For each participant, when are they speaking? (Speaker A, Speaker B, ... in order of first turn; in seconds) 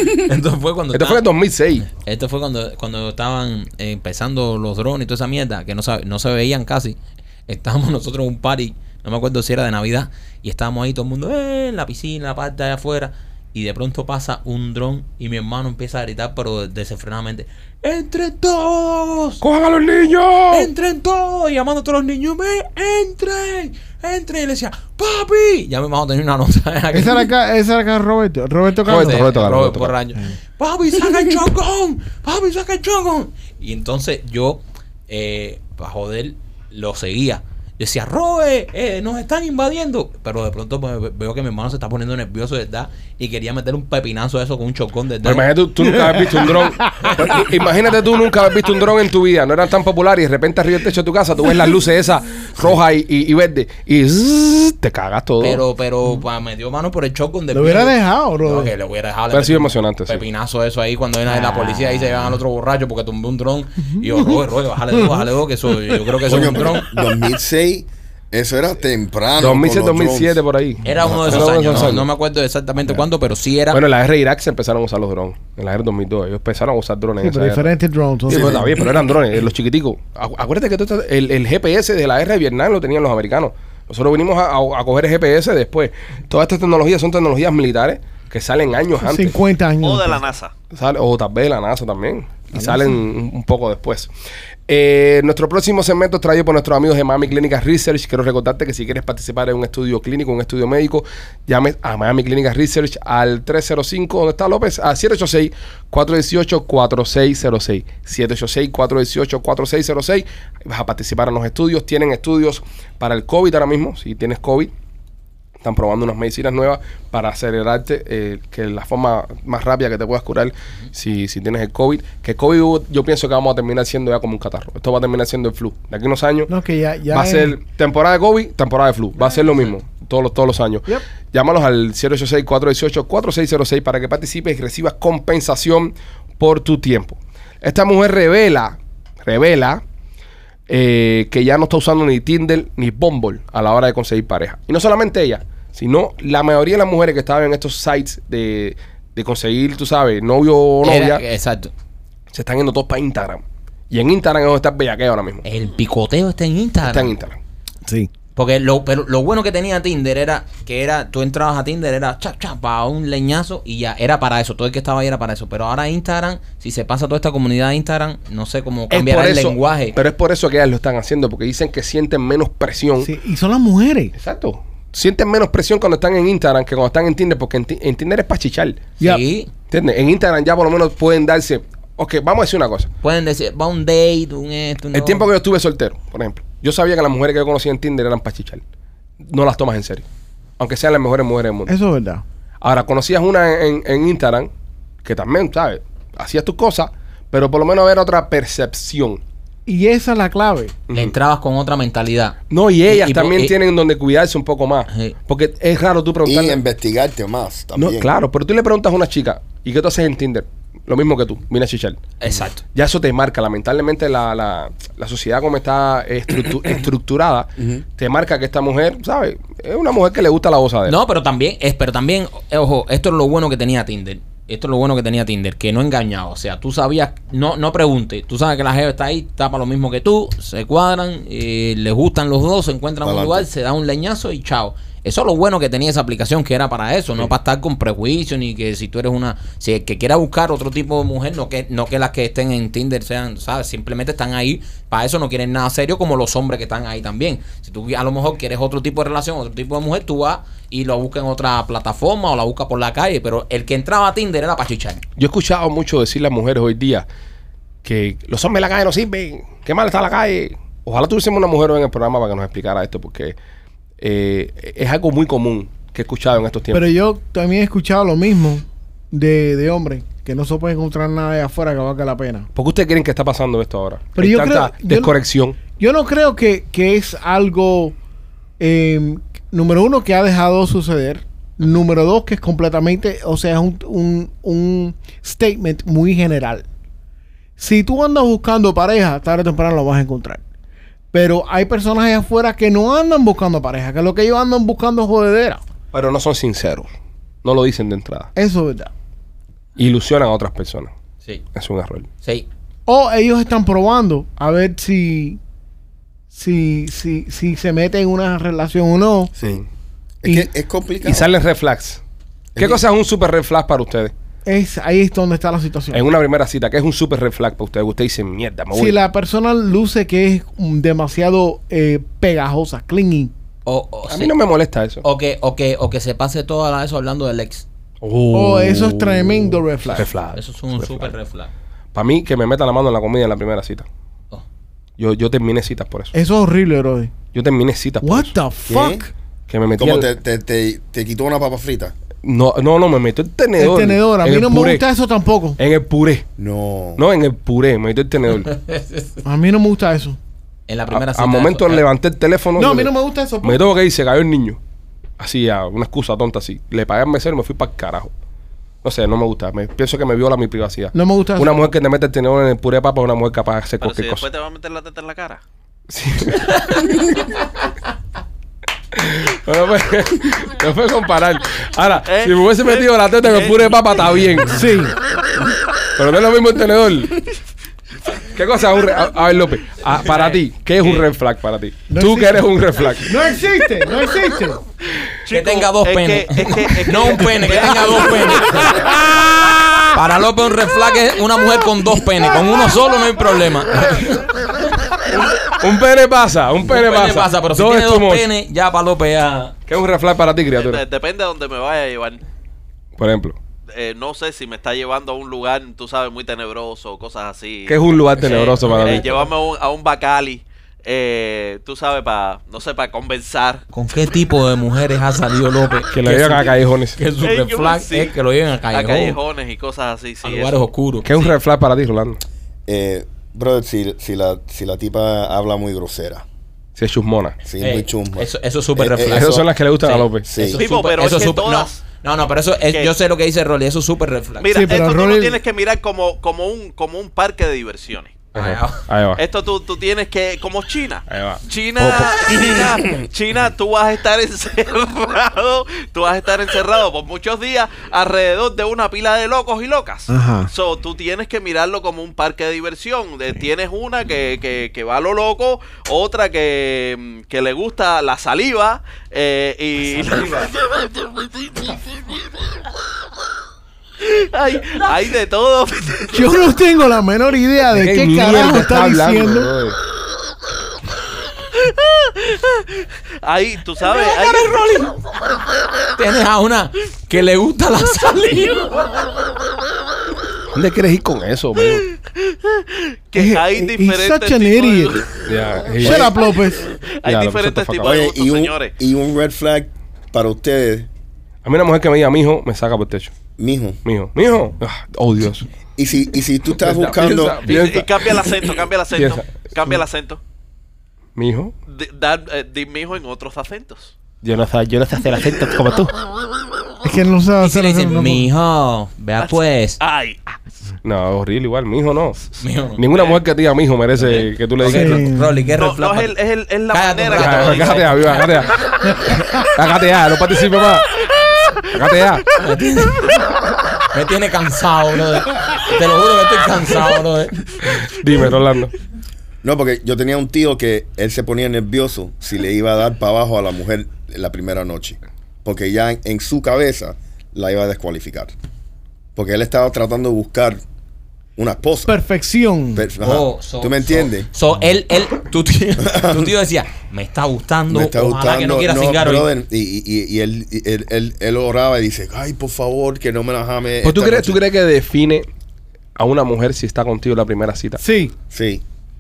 Speaker A: 0.2-1.2, 1.9-19.4, 20.5-27.3, 28.9-45.5, 55.4-67.0, 70.8-73.8, 150.8-151.7, 155.4-157.1, 158.4-170.0, 179.0-179.5, 183.0-185.3, 200.9-202.4, 202.9-203.5, 212.2-212.6, 220.9-255.0, 323.7-324.3, 325.0-327.7, 329.8-331.5, 348.4-349.2, 350.7-351.8, 385.3-388.8, 389.9-394.6, 396.6-399.6, 413.7-419.2, 420.2-421.1, 427.6-434.6, 438.3-438.8, 460.0-460.5, 473.9-475.0, 475.9-478.9, 507.4-509.8, 512.4-512.8, 514.0-516.2, 516.7-518.3, 522.4-523.2, 523.8-527.6, 543.0-549.3
Speaker B: 0.9-1.9, 19.4-20.7, 28.8-29.9, 45.2-55.6, 59.3-60.2, 69.4-72.1, 73.7-77.7, 78.3-89.4, 90.7-94.1, 94.7-114.7, 115.6-126.5, 127.1-139.8, 140.7-151.2, 152.3-155.4, 156.8-157.4, 168.9-173.1, 174.2-178.8, 179.7-182.9, 184.9-188.6, 189.3-190.1, 190.6-191.7, 192.6-194.5, 195.0-199.2, 200.9-201.1, 202.5-206.6, 207.8-212.0, 212.7-220.9, 255.2-257.1, 257.8-263.3, 264.0-266.9, 272.6-275.6, 295.9-296.9, 297.4-298.3, 299.8-300.9, 301.6-302.1, 311.0-312.0, 312.6-314.1, 315.9-319.0, 324.1-325.0, 328.0-331.1, 331.9-333.9, 335.0-336.1, 337.3-338.3, 339.5-340.1, 342.2-344.8, 345.6-346.2, 347.0-348.5, 350.9-354.6, 355.2-358.1, 358.8-364.3, 365.9-367.0, 368.9-374.6, 375.9-377.2, 378.2-383.2, 395.1-398.3, 399.7-400.8, 403.0-403.4, 407.7-409.1, 415.9-417.0, 421.1-422.2, 426.8-427.4, 429.1-430.3, 438.3-439.2, 441.1-442.4, 467.7-469.8, 480.5-481.8, 485.3-486.1, 487.0-488.0, 491.4-493.1, 493.8-495.5, 496.6-499.5, 501.2-501.5, 504.2-505.9, 510.8-512.2, 512.8-515.1, 517.2-518.5, 519.1-520.9, 521.7-522.2, 527.8-528.7, 553.8-555.3, 556.0-557.8
Speaker C: 26.9-29.3, 45.8-47.4, 57.5-58.7, 61.3-62.1, 64.0-64.4, 65.0-66.0, 77.2-78.7, 89.0-90.2, 126.5-127.5, 173.0-174.1, 191.7-192.2, 199.7-200.7, 266.7-272.5, 274.2-275.1, 275.7-277.9, 278.6-286.6, 287.6-290.4, 291.1-295.6, 298.4-298.9, 302.9-305.4, 306.3-309.3, 314.4-316.0, 318.7-323.3, 328.3-330.1, 336.1-337.1, 338.0-339.1, 343.6-345.6, 349.2-350.2, 352.6-353.7, 360.9-361.5, 374.5-374.9, 381.9-382.4, 383.0-384.6, 434.5-435.4, 450.1-450.5, 466.1-469.5, 483.2-485.1, 485.8-486.8, 506.8-508.2, 514.7-515.4, 541.9-542.9, 557.8-558.1
Speaker D: 66.3-70.4, 70.9-71.8, 78.3-78.8, 206.2-208.1, 217.6-217.8, 233.0-233.5, 310.2-311.3, 312.6-312.8, 338.7-339.1, 339.8-341.9, 346.4-347.0, 422.7-426.2, 427.4-429.5, 430.2-430.6, 487.8-490.9, 493.4-493.8, 495.8-497.6, 529.4-538.3, 539.2-540.6, 541.4-542.0, 542.7-544.3, 545.8-546.3, 547.7-554.4, 558.3-558.6
Speaker E: 89.8-90.5, 363.8-365.4, 372.1-373.6, 385.2-388.8, 400.5-402.2, 403.7-413.6, 417.2-418.1, 418.7-421.3, 430.6-431.8, 434.4-438.2, 439.2-460.5, 464.0-466.4, 471.6-472.7, 473.2-474.6, 482.2-485.2, 486.7-488.7, 497.4-500.2, 501.7-503.9, 509.2-510.2, 515.5-518.1